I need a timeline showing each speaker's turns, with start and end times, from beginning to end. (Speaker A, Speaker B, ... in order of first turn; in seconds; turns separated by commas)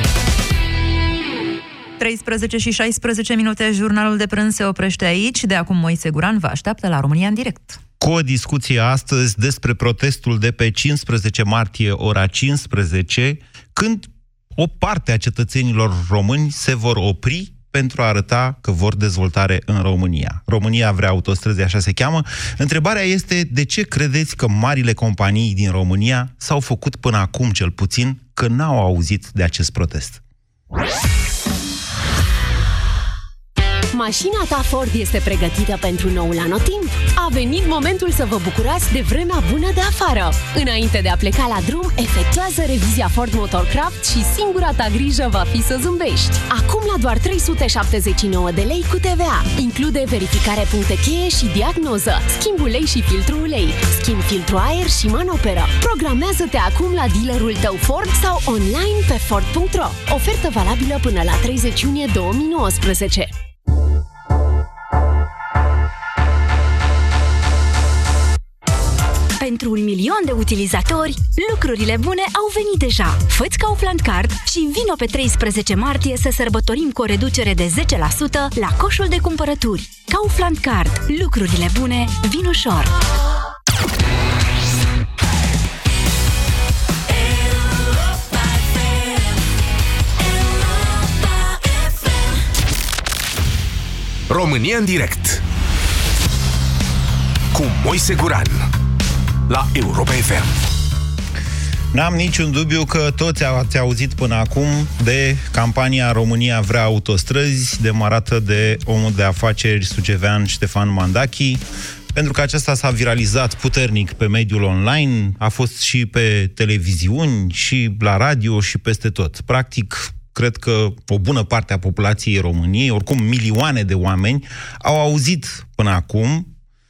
Speaker A: 2.0-7.8, Speaker B: 8.0-30.2, Speaker C: 33.9-63.3, Speaker D: 69.4-82.9, Speaker E: 94.3-95.4, Speaker E: 97.5-98.7, Speaker E: 99.5-100.6, Speaker B: 101.9-126.5